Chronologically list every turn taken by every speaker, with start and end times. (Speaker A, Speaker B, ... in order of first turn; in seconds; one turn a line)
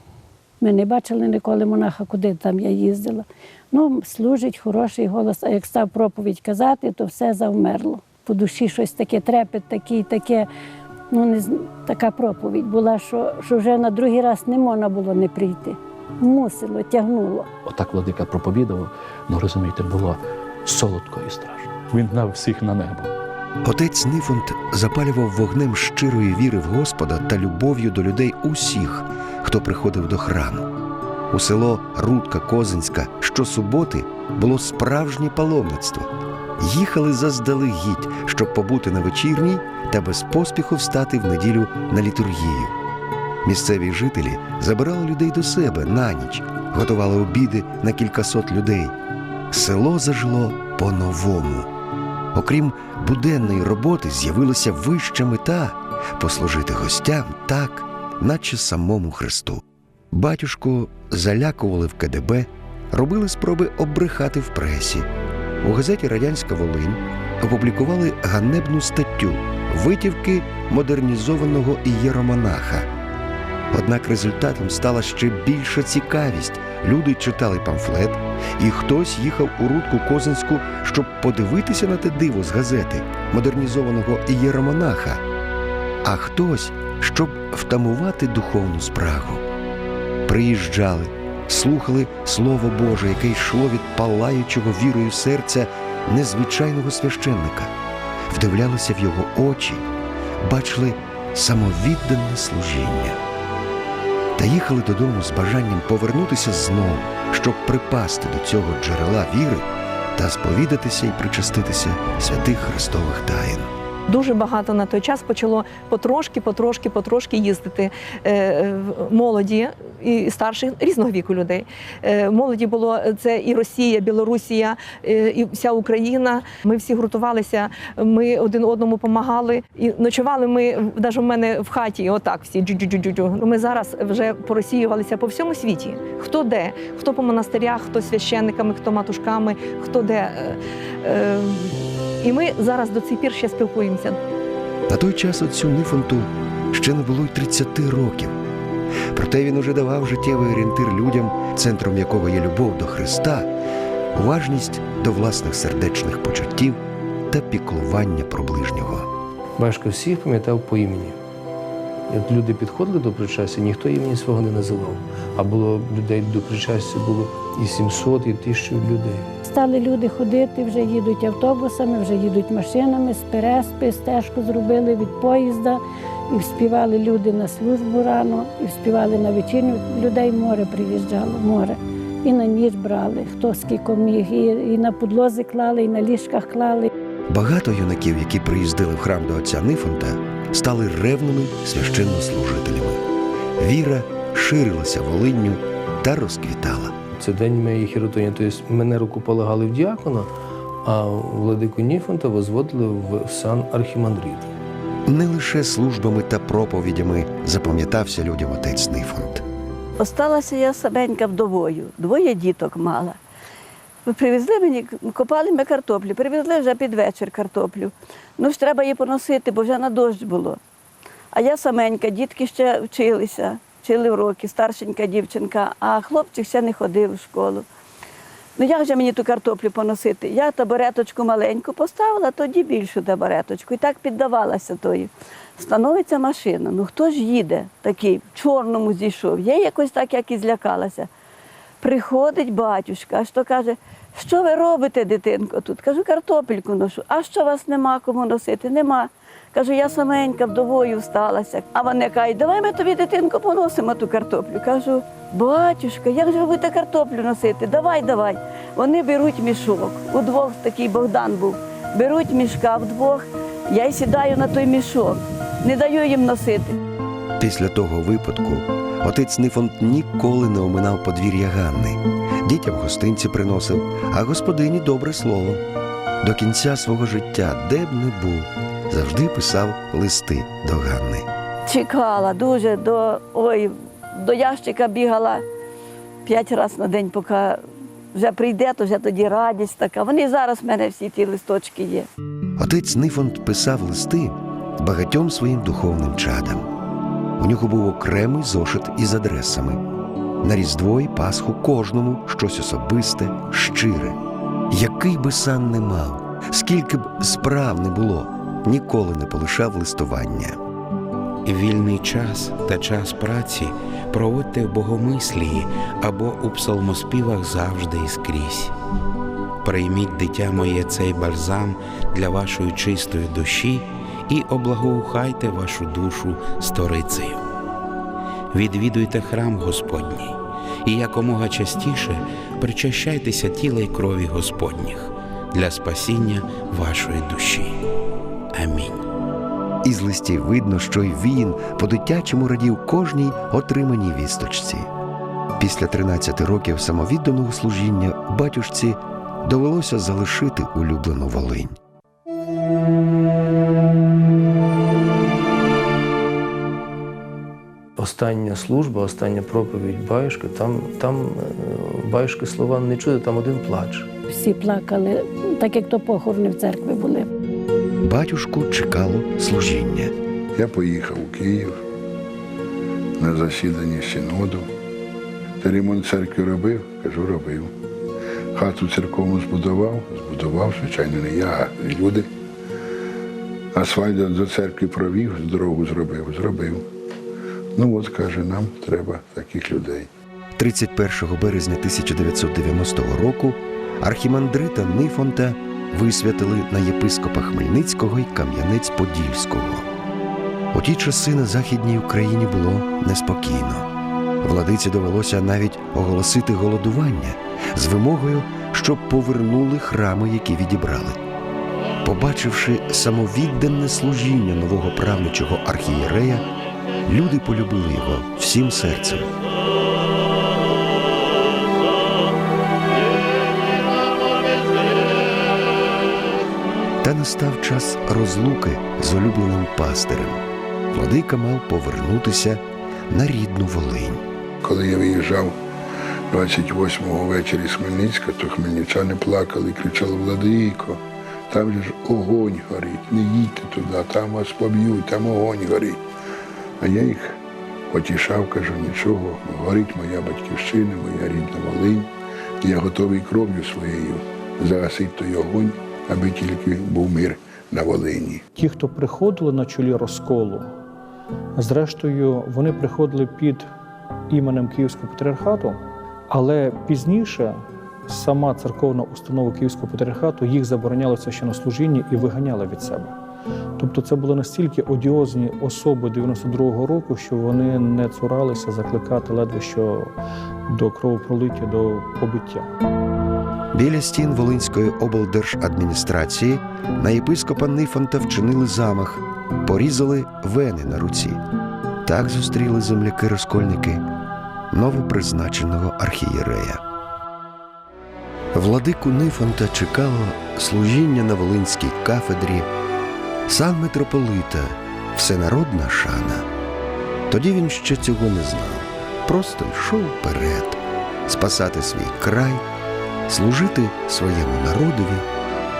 Speaker A: 0.6-10.5
Speaker A: 11.1-17.5
Speaker B: 17.6-23.1
Speaker C: 23.6-30.7
Speaker C: 31.3-42.8
Speaker C: 43.4-48.9
Speaker C: 49.5-51.7
Speaker C: 52.3-65.1
Speaker C: 65.6-72.9
Speaker C: 73.7-85.2
Speaker C: 86.0-89.4
Speaker C: 90.2-97.7
Speaker C: 98.3-99.8
Speaker C: 100.4-103.2
Speaker C: 104.4-113.7
Speaker D: 114.1-144.2
Speaker C: 144.9-148.4
Speaker C: 149.1-153.5
Speaker C: 154.1-159.1
Speaker E: 159.6-161.2
Speaker E: 162.1-169.3
Speaker A: 169.4-186.9
Speaker C: 187.3-193.0
Speaker C: 193.6-196.9
Speaker E: 197.2-200.3
Speaker E: 200.8-204.5
Speaker C: 205.1-209.4
Speaker F: 210.0-213.2
Speaker F: 214.1-220.6
Speaker F: 221.3-227.7
Speaker F: 228.6-241.1
Speaker F: 241.8-266.8
Speaker C: 267.4-275.6
Speaker C: 276.2-281.3
Speaker F: 281.7-285.4
Speaker F: 286.2-287.6
Speaker F: 288.1-292.1
Speaker C: 292.6-296.7
Speaker C: 297.4-299.8
Speaker C: 300.4-304.2
Speaker C: 304.7-310.6
Speaker G: 311.4-318.7
Speaker G: 319.6-327.4
Speaker G: 328.5-337.8
Speaker G: 338.5-339.0
Speaker C: 339.8-344.9
Speaker C: 345.6-351.8
Speaker E: 357.9-364.1
Speaker A: 364.3-367.3
Speaker C: 368.0-370.1
Speaker H: 370.6-371.8
Speaker H: 373.2-374.7
Speaker H: 375.6-377.7
Speaker H: 378.5-382.3
Speaker H: 383.7-386.8
Speaker H: 387.8-390.1
Speaker C: 390.6-399.9
Speaker C: 400.7-403.9
Speaker C: 404.4-411.2
Speaker C: 412.0-416.4
Speaker C: 417.1-419.3
Speaker C: 427.0-434.2
Speaker H: 434.6-435.5
Speaker H: 436.3-446.0
Speaker H: 446.8-447.4
Speaker H: 447.9-452.1
Speaker H: 452.6-458.4
Speaker I: 458.5-460.7
Speaker I: 461.6-463.7
Speaker I: 464.3-473.1
Speaker I: 473.8-480.1
Speaker I: 480.7-482.7
Speaker C: 483.7-491.4
Speaker C: 492.0-494.0
Speaker C: 494.7-496.8
Speaker C: 498.5-502.7
Speaker C: 503.5-506.5
Speaker C: 507.3-512.6
Speaker C: 513.3-515.3